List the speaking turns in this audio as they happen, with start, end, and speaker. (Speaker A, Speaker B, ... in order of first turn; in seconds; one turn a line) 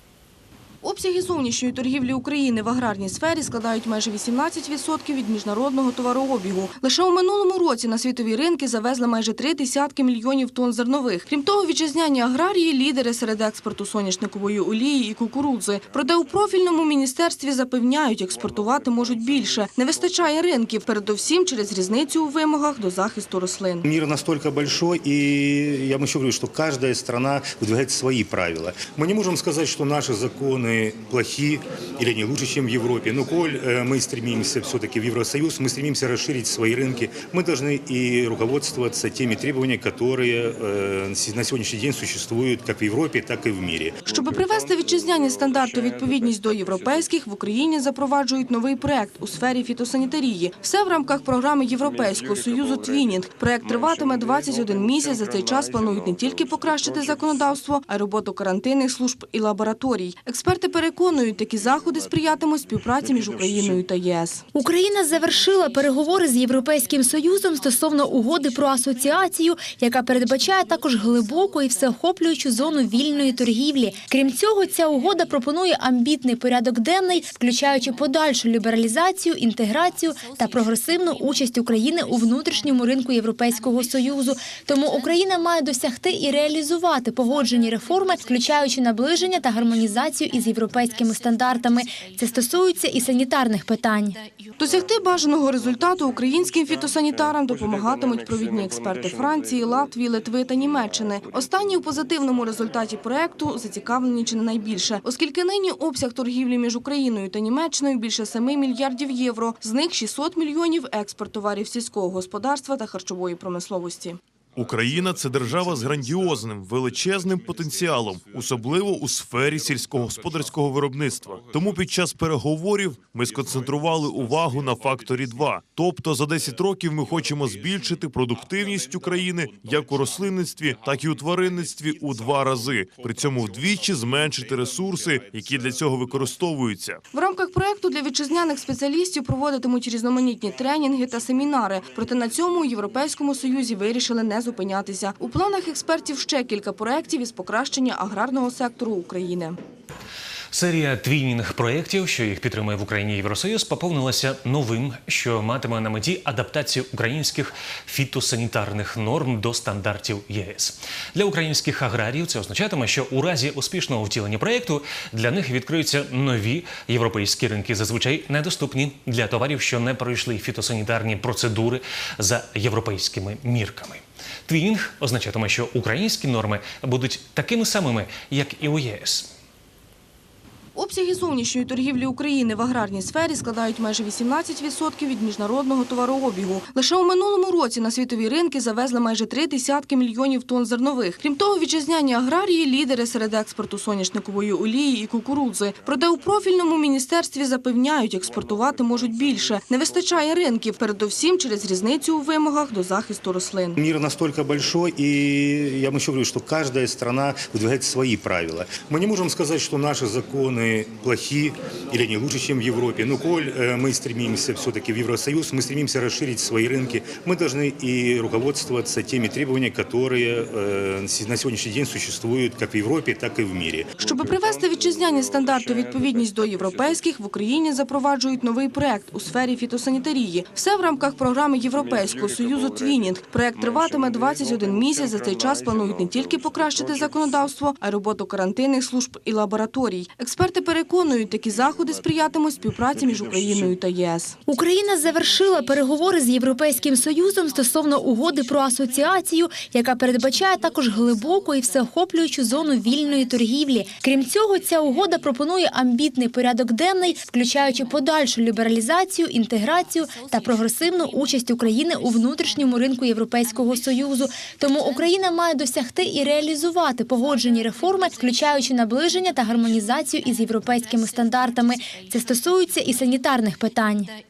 Speaker A: 0.8-23.9
Speaker B: 23.9-44.0
Speaker A: 44.0-64.4
Speaker C: 64.6-94.2
Speaker A: 94.6-114.2
Speaker D: 114.5-137.0
Speaker A: 137.1-149.6
Speaker E: 150.5-179.3
Speaker A: 180.8-203.8
Speaker B: 203.8-223.9
Speaker A: 224.0-244.4
Speaker C: 244.5-274.1